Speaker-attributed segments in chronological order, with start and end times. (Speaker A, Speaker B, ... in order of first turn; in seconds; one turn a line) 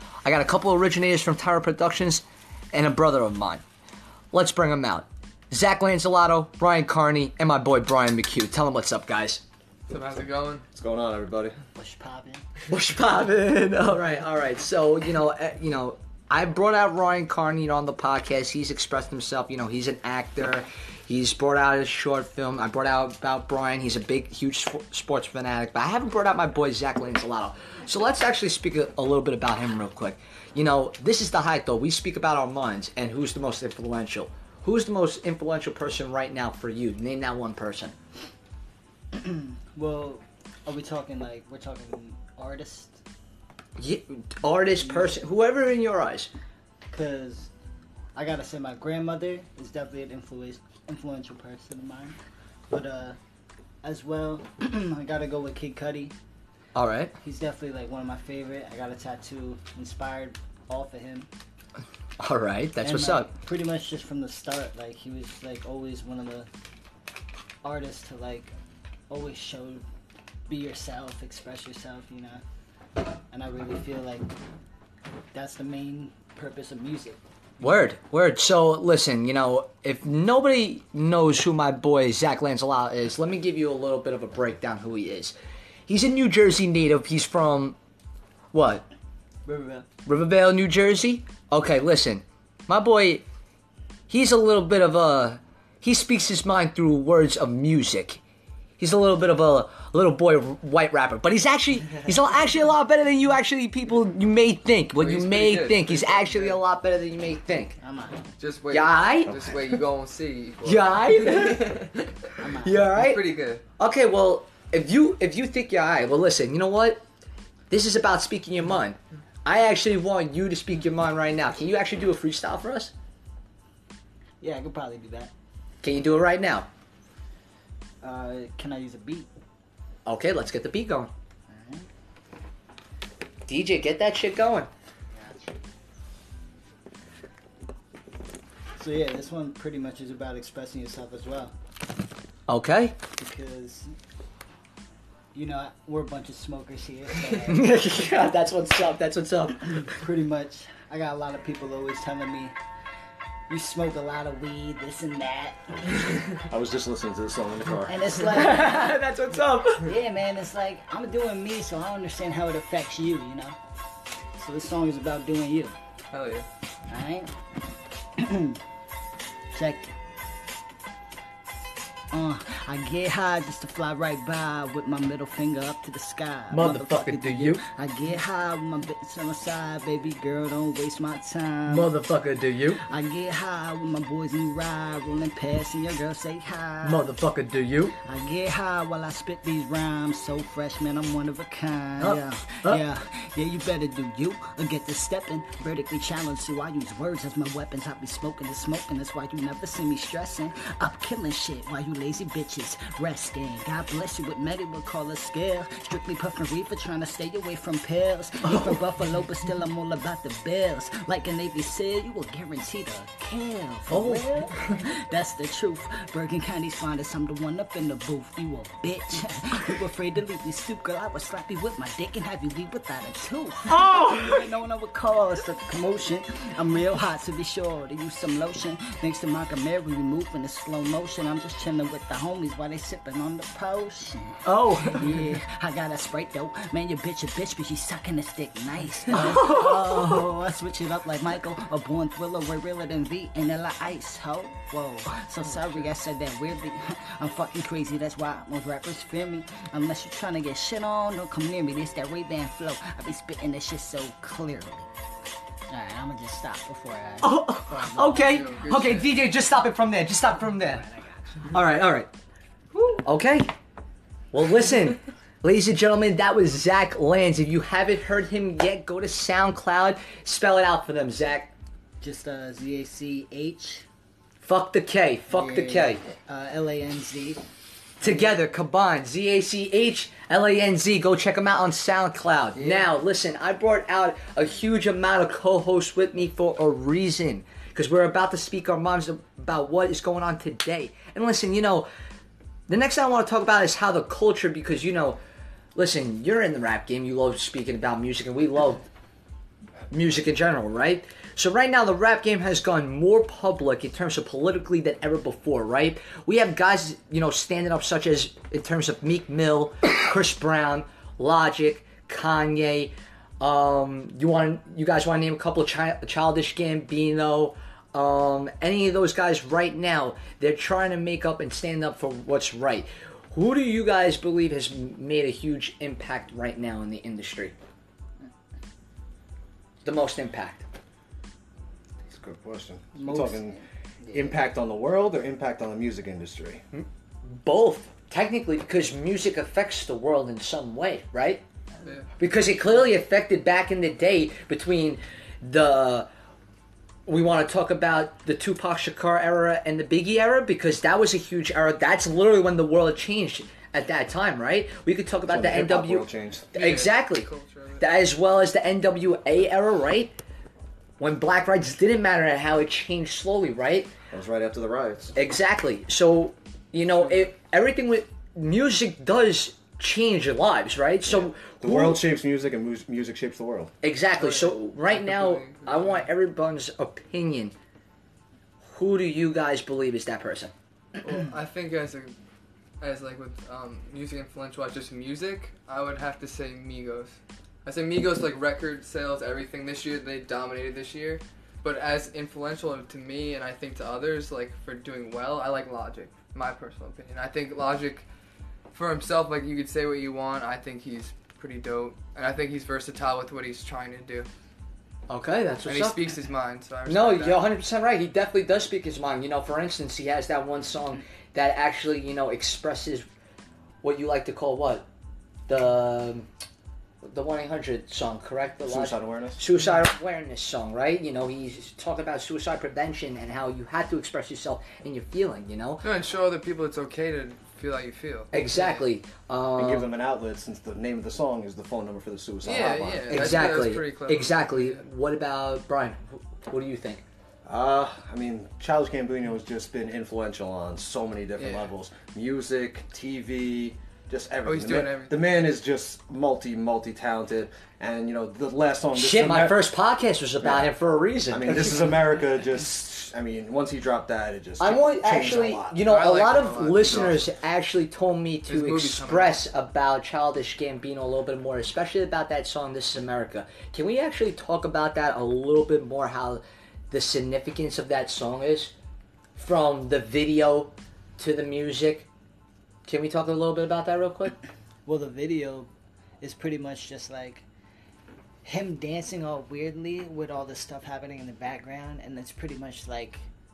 Speaker A: 0.2-3.6
Speaker A: 4.3-9.4
Speaker B: 9.9-10.6
Speaker C: 10.7-11.6
Speaker D: 11.7-12.4
Speaker A: 12.7-37.9
Speaker D: 39.1-43.0
Speaker A: 43.8-46.3
Speaker D: 44.8-45.2
Speaker D: 46.9-47.5
Speaker D: 48.1-52.2
Speaker D: 52.7-53.2
Speaker D: 53.8-56.1
Speaker A: 56.7-57.1
Speaker D: 57.2-61.3
Speaker A: 62.2-63.3
Speaker D: 62.8-66.5
Speaker D: 67.6-68.5
Speaker D: 69.1-69.8
Speaker D: 70.5-72.4
Speaker D: 73.3-74.3
Speaker D: 75.3-77.2
Speaker A: 77.6-85.3
Speaker A: 85.9-87.8
Speaker A: 88.5-88.8
Speaker D: 89.5-89.8
Speaker A: 90.0-93.2
Speaker A: 94.1-98.2
Speaker A: 98.8-107.8
Speaker B: 105.0-106.6
Speaker D: 107.8-108.3
Speaker B: 108.4-112.0
Speaker A: 108.7-109.3
Speaker C: 109.3-109.7
Speaker A: 110.6-112.0
Speaker D: 112.4-113.0
Speaker A: 112.6-117.0
Speaker B: 112.9-113.6
Speaker A: 117.7-122.9
Speaker D: 124.4-125.3
Speaker A: 125.8-126.7
Speaker D: 128.0-129.3
Speaker A: 130.1-131.1
Speaker D: 131.5-131.9
Speaker A: 133.5-134.7
Speaker D: 138.8-141.5
Speaker A: 142.5-142.9
Speaker D: 143.2-143.9
Speaker D: 145.3-147.7
Speaker A: 147.4-149.9
Speaker D: 149.8-152.6
Speaker D: 153.5-155.9
Speaker C: 156.4-158.1
Speaker D: 157.8-159.0
Speaker A: 158.3-159.9
Speaker D: 159.8-163.6
Speaker D: 164.3-165.8
Speaker B: 166.1-166.5
Speaker D: 166.9-167.3
Speaker D: 168.2-168.6
Speaker D: 169.5-169.9
Speaker D: 172.1-181.9
Speaker A: 176.5-177.6
Speaker A: 181.7-182.8
Speaker D: 182.9-187.1
Speaker A: 186.8-188.0
Speaker D: 188.0-254.9
Speaker A: 192.0-192.8
Speaker A: 208.4-208.8
Speaker A: 213.9-214.8
Speaker A: 223.8-224.3
Speaker A: 234.4-235.3
Speaker A: 239.1-240.2
Speaker D: 255.7-258.6
Speaker A: 257.2-260.9
Speaker B: 258.2-259.1
Speaker D: 260.8-261.4
Speaker A: 261.5-262.1
Speaker B: 262.7-263.0
Speaker A: 263.0-263.5
Speaker A: 264.3-271.5
Speaker D: 272.0-273.9
Speaker A: 274.4-276.0
Speaker D: 275.3-277.4
Speaker A: 278.0-291.9
Speaker C: 282.6-282.8
Speaker A: 292.7-295.2
Speaker A: 295.7-298.8
Speaker A: 299.9-327.5
Speaker A: 329.8-330.6
Speaker C: 332.1-333.6
Speaker D: 332.9-333.6
Speaker C: 334.1-336.6
Speaker A: 337.4-341.4
Speaker A: 342.2-346.1
Speaker A: 347.1-360.1
Speaker C: 355.3-356.4
Speaker B: 356.5-357.8
Speaker A: 361.0-363.9
Speaker C: 364.1-365.1
Speaker A: 365.1-372.0
Speaker B: 366.9-367.3
Speaker C: 371.1-373.7
Speaker A: 373.8-377.5
Speaker B: 374.2-376.1
Speaker A: 378.7-380.5
Speaker B: 381.0-382.1
Speaker B: 382.8-398.1
Speaker B: 398.7-404.3
Speaker A: 405.1-406.1
Speaker B: 405.6-407.4
Speaker A: 406.9-413.1
Speaker A: 413.8-414.9
Speaker A: 415.5-416.3
Speaker A: 417.0-425.8
Speaker C: 418.6-419.4
Speaker B: 425.8-428.8
Speaker A: 428.3-429.9
Speaker C: 429.6-433.4
Speaker B: 432.4-434.8
Speaker A: 433.1-437.0
Speaker C: 437.4-449.7
Speaker B: 441.4-441.7
Speaker B: 444.4-445.2
Speaker A: 448.9-452.0
Speaker C: 450.4-450.7
Speaker C: 451.3-455.8
Speaker A: 454.6-468.7
Speaker B: 455.8-457.3
Speaker B: 458.5-459.4
Speaker A: 469.4-472.1
Speaker A: 472.9-474.4
Speaker D: 474.9-475.7
Speaker D: 476.2-477.4
Speaker D: 478.4-483.3